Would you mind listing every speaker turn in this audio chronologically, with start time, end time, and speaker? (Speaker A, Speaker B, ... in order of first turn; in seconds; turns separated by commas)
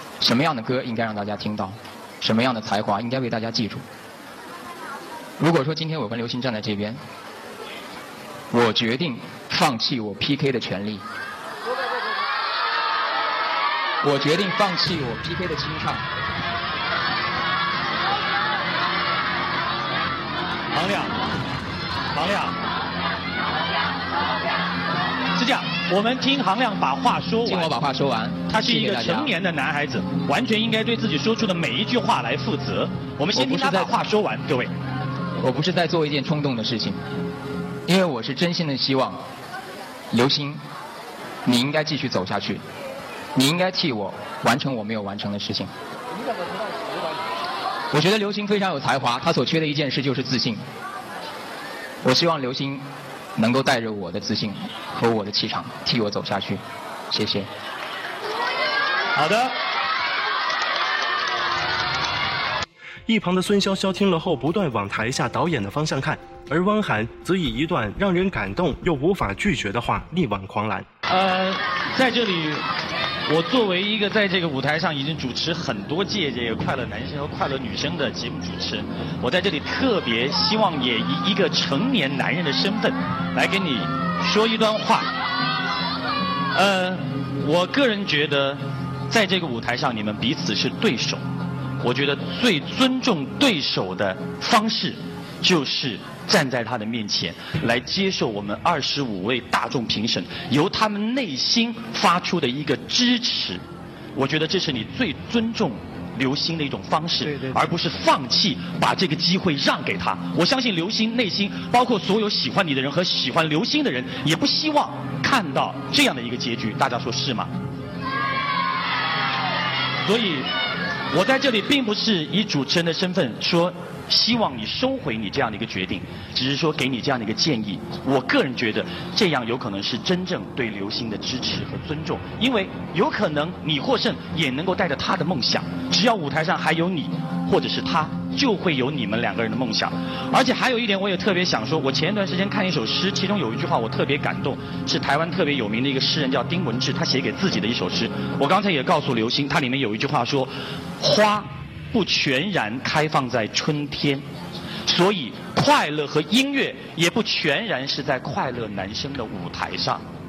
Speaker A: 0.2-3.8, Speaker A: 5.4-7.0, Speaker A: 8.5-11.1, Speaker A: 14.0-16.1, Speaker B: 20.7-21.3, Speaker B: 22.1-22.6, Speaker B: 25.4-27.7, Speaker A: 27.4-29.3, Speaker B: 28.5-34.7, Speaker A: 33.3-34.0, Speaker A: 35.4-37.0, Speaker A: 37.9-39.2, Speaker A: 40.1-40.6, Speaker A: 41.5-42.6, Speaker A: 43.4-45.7, Speaker A: 47.9-50.6, Speaker A: 52.0-57.5, Speaker B: 59.2-59.6, Speaker C: 63.1-70.9, Speaker B: 71.1-72.6, Speaker B: 73.3-85.1, Speaker B: 86.5-91.2, Speaker B: 91.8-103.6, Speaker B: 104.2-117.5, Speaker B: 120.0-120.5, Speaker B: 121.1-154.3, Speaker B: 154.9-160.1